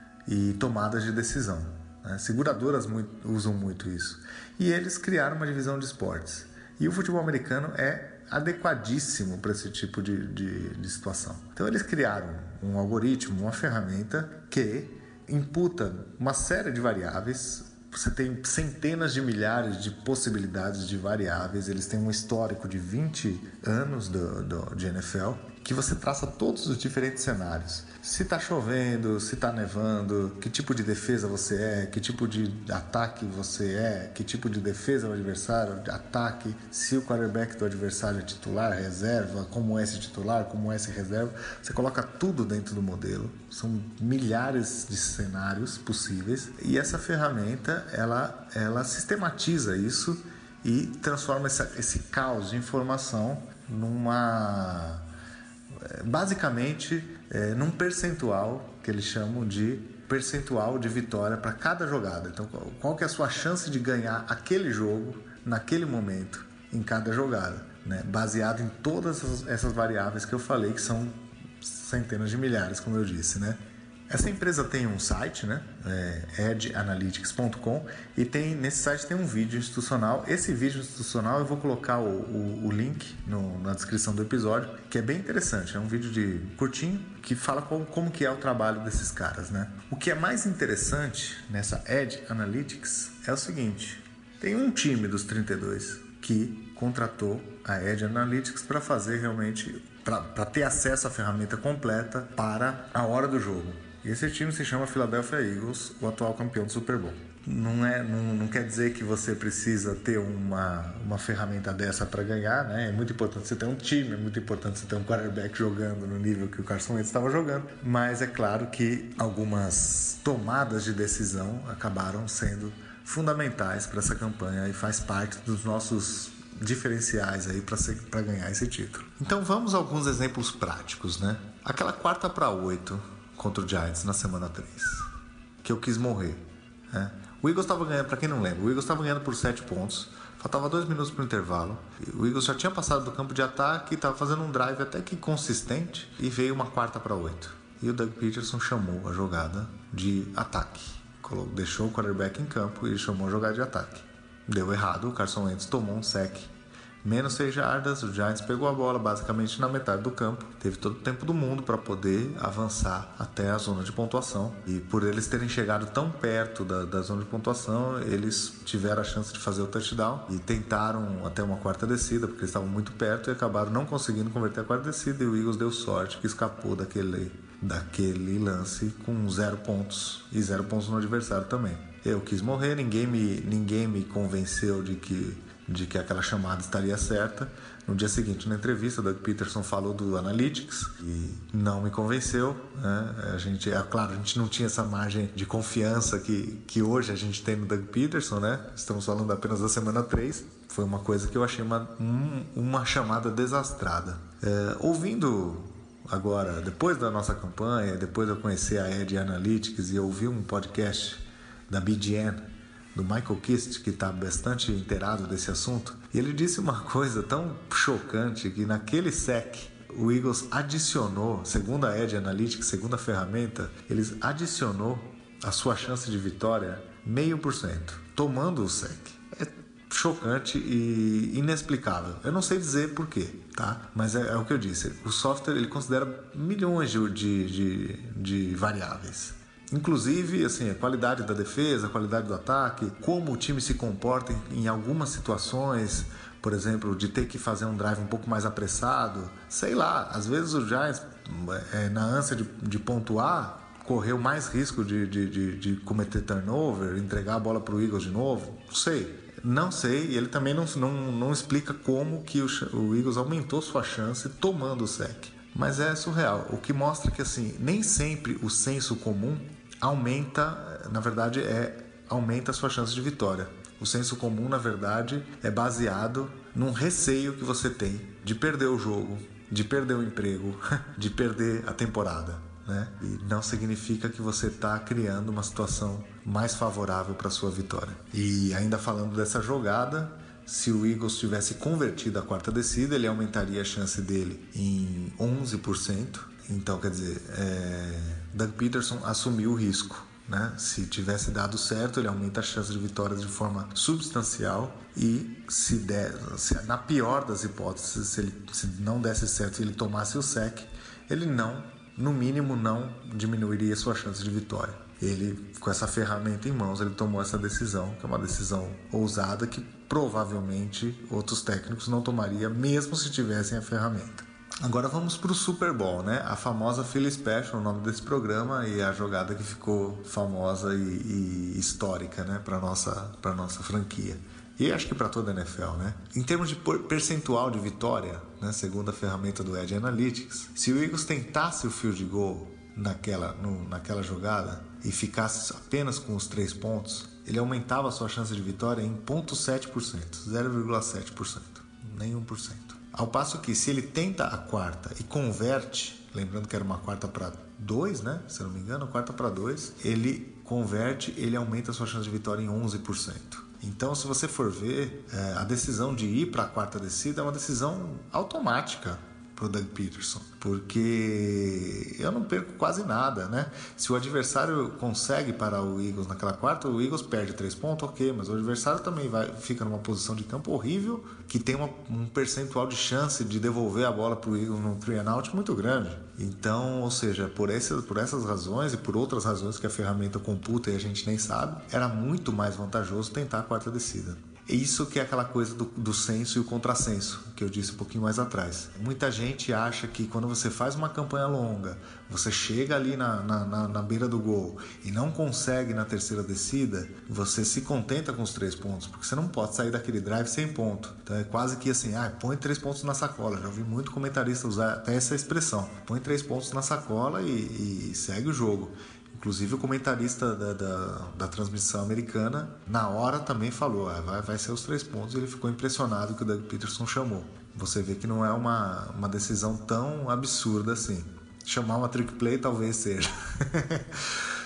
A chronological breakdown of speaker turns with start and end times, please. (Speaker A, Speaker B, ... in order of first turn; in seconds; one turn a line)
Speaker A: 0.3-55.0
Speaker A: 55.7-135.1
Speaker A: 135.6-156.5
Speaker A: 157.0-212.4
Speaker A: 212.9-434.2